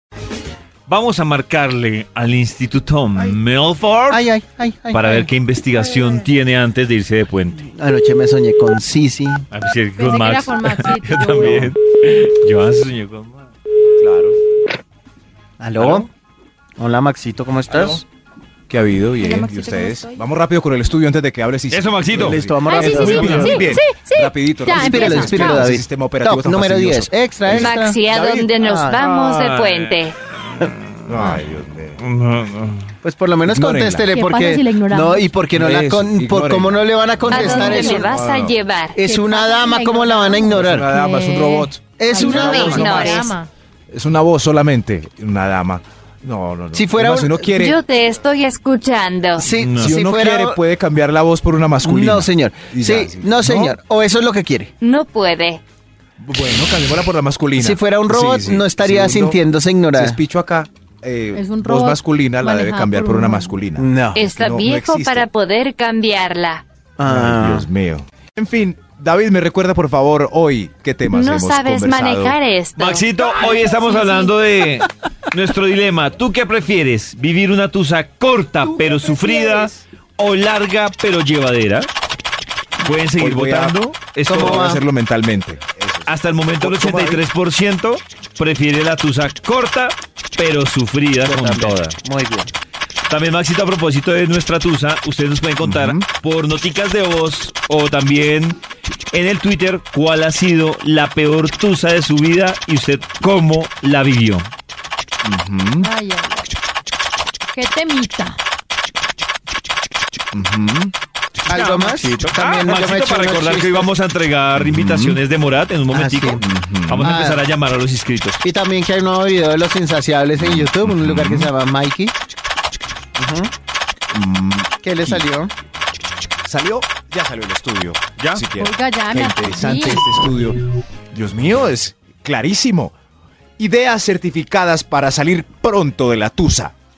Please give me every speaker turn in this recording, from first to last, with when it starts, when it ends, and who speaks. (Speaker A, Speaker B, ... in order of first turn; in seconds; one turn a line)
Speaker A: 0.9-4.2
Speaker B: 4.1-5.3
Speaker A: 4.9-7.6
Speaker B: 7.6-9.4
Speaker A: 9.5-13.5
Speaker C: 10.0-11.8
Speaker D: 14.0-14.4
Speaker B: 15.6-16.1
Speaker A: 15.8-16.1
Speaker B: 16.8-18.0
Speaker D: 17.7-18.0
Speaker D: 18.7-28.6
Speaker C: 19.2-20.2
Speaker A: 21.7-23.6
Speaker B: 22.1-23.8
Speaker C: 22.6-25.7
Speaker B: 24.7-28.0
Speaker E: 27.5-30.1
Speaker B: 28.6-29.0
Speaker A: 29.0-30.0
Speaker D: 31.1-32.0
Speaker A: 32.0-32.9
Speaker B: 33.0-38.1
Speaker D: 33.5-34.0
Speaker C: 34.1-35.3
Speaker D: 35.5-38.6
Speaker E: 37.3-39.0
Speaker C: 37.4-37.8
Speaker B: 38.9-40.9
Speaker C: 39.0-43.5
Speaker D: 40.5-43.1
Speaker B: 42.0-43.3
Speaker E: 42.4-43.2
Speaker D: 43.9-47.8
Speaker B: 46.7-47.5
Speaker E: 47.5-49.5
Speaker B: 49.4-50.6
Speaker A: 49.5-49.9
Speaker D: 49.8-53.8
Speaker B: 51.8-54.7
Speaker E: 54.8-55.6
Speaker D: 56.2-59.4
Speaker B: 57.6-60.2
Speaker D: 59.9-65.3
Speaker C: 61.3-63.5
Speaker B: 63.8-64.3
Speaker E: 64.1-66.6
Speaker B: 67.0-67.7
Speaker D: 67.0-72.3
Speaker E: 71.1-74.3
Speaker A: 72.8-81.9
Speaker D: 78.6-79.8
Speaker A: 82.8-84.8
Speaker D: 83.1-83.8
Speaker B: 84.2-84.8
Speaker D: 84.3-87.2
Speaker A: 86.0-92.0
Speaker B: 91.2-92.5
Speaker A: 93.1-98.6
Speaker D: 95.6-96.0
Speaker A: 99.1-104.5
Speaker D: 105.2-105.9
Speaker C: 105.8-106.5
Speaker C: 107.5-108.4
Speaker D: 110.3-110.9
Speaker A: 111.4-118.4
Speaker B: 111.5-113.9
Speaker D: 114.5-115.2
Speaker B: 115.9-116.4
Speaker D: 116.4-117.0
Speaker B: 117.0-117.4
Speaker B: 118.4-122.1
Speaker D: 120.4-121.5
Speaker B: 123.2-123.5
Speaker D: 124.1-125.2
Speaker B: 124.8-125.5
Speaker D: 126.4-130.6
Speaker A: 128.2-128.4
Speaker C: 128.6-130.1
Speaker D: 131.1-132.9
Speaker D: 133.6-136.7